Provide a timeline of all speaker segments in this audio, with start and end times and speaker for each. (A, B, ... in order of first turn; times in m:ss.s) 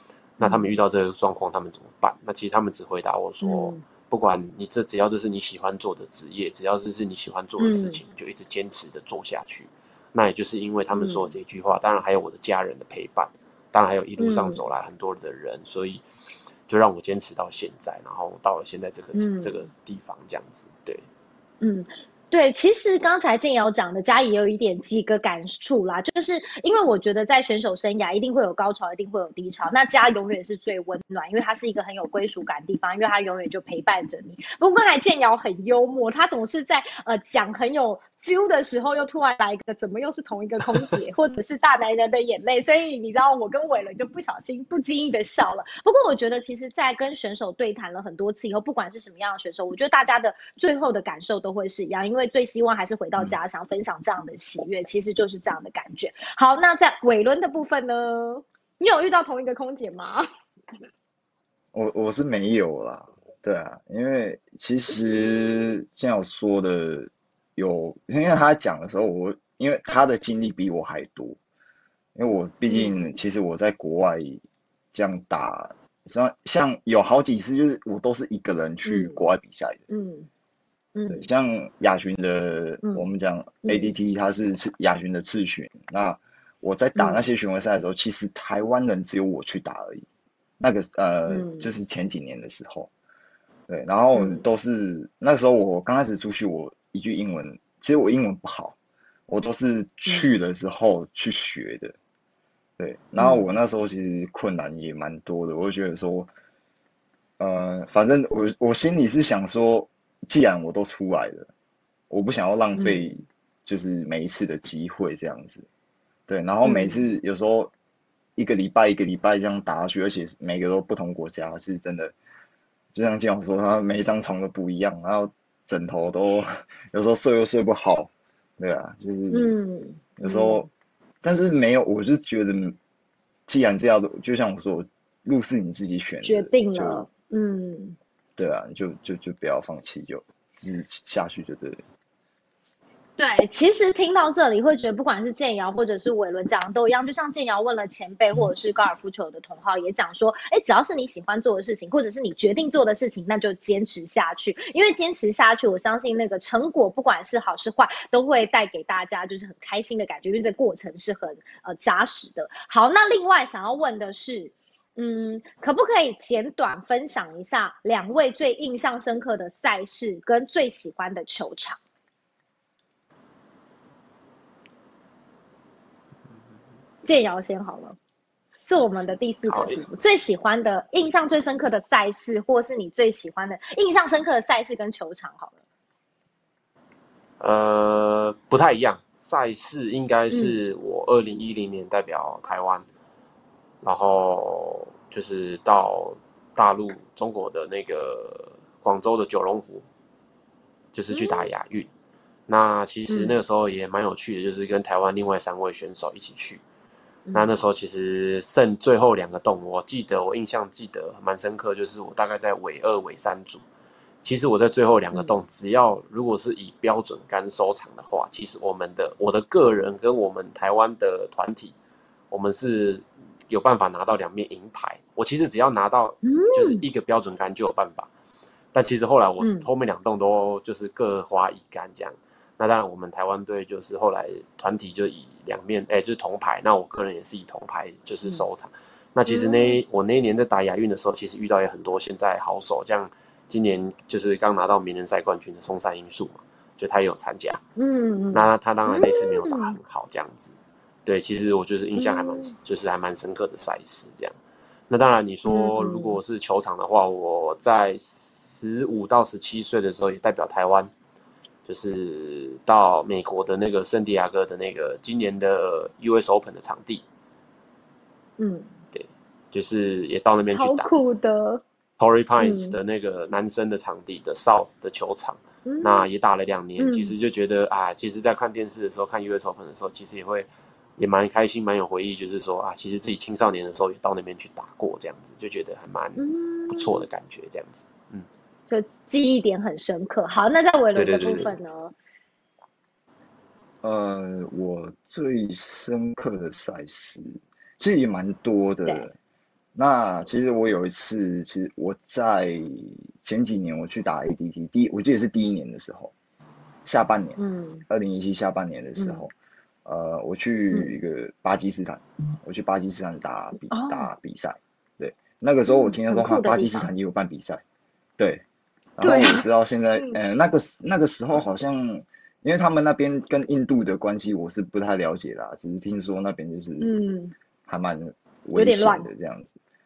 0:00.4-0:16.0 A
0:00.4-0:00.7 B
0:03.4-0:03.8 B
0:07.6-0:08.0 B
0:10.9-0:11.3 B
0:14.2-0:14.6 B
0:16.7-0:21.0 A
0:19.1-0:19.6 B
0:21.6-1:00.2 B
1:01.7-1:11.4 C
1:05.2-1:05.6 B
1:12.1-1:19.8 C
1:12.7-1:13.0 B
1:18.8-1:19.2 B
1:19.9-1:20.3 B
1:21.0-1:21.2 B
1:21.1-1:30.0 C
1:23.6-1:23.9 B
1:27.0-1:27.2 B
1:30.6-1:32.9 C
1:31.3-1:31.7 B
1:33.7-1:38.8 C
1:34.1-1:34.4 B
1:39.3-1:41.9 C
1:42.8-1:46.3 C
1:43.2-1:43.5 B
1:47.4-1:51.5 C
1:52.1-1:55.6 C
1:52.8-1:53.1 B
1:56.3-1:57.7 C
1:56.6-1:57.1 B
1:58.4-2:02.1 C
2:02.9-2:09.5 C
2:09.3-2:10.7 B
2:10.2-2:10.7 C
2:11.2-2:12.8 C
2:13.5-2:17.0 C
2:16.2-2:18.0 B
2:18.4-2:21.8 C
2:23.2-2:51.8 B
2:57.0-2:58.0 B
2:58.6-3:05.6 B
2:59.4-2:59.8 A
3:07.4-3:12.8 A
3:10.3-3:10.6 B
3:13.8-3:19.8 A
3:20.9-3:21.9 A
3:21.1-3:21.5 B
3:22.5-3:26.6 A
3:23.1-3:23.4 B
3:27.3-3:27.6 B
3:27.3-3:33.6 A
3:34.2-3:41.7 A
3:42.3-3:48.1 A
3:46.2-3:46.8 B
3:48.7-4:07.6 A
3:49.4-3:49.6 B
3:59.2-3:59.8 B
4:07.8-4:09.7 B
4:08.3-4:10.5 A
4:11.0-4:14.3 A
4:12.0-4:12.5 B
4:14.9-4:20.9 A
4:15.5-4:16.2 B
4:21.6-4:27.0 A
4:28.4-4:28.7 B
4:28.9-4:30.9 A
4:30.5-4:31.6 B
4:32.0-4:48.3 A
4:32.4-4:32.8 B
4:35.6-4:36.1 B
4:36.8-4:37.1 B
4:46.2-4:47.0 B
4:48.7-4:51.9 B
4:50.9-4:51.5 A
4:53.8-4:59.1 C
4:59.7-5:06.1 C
5:06.8-5:07.4 C
5:07.4-5:07.8 B
5:07.9-5:09.3 C
5:09.0-5:09.2 B
5:09.8-5:17.6 C
5:13.7-5:14.1 B
5:15.7-5:16.9 B
5:18.2-5:18.4 C
5:19.0-5:27.0 C
5:19.0-5:19.4 B
5:26.8-5:27.3 B
5:27.7-5:29.6 C
5:28.5-5:29.1 B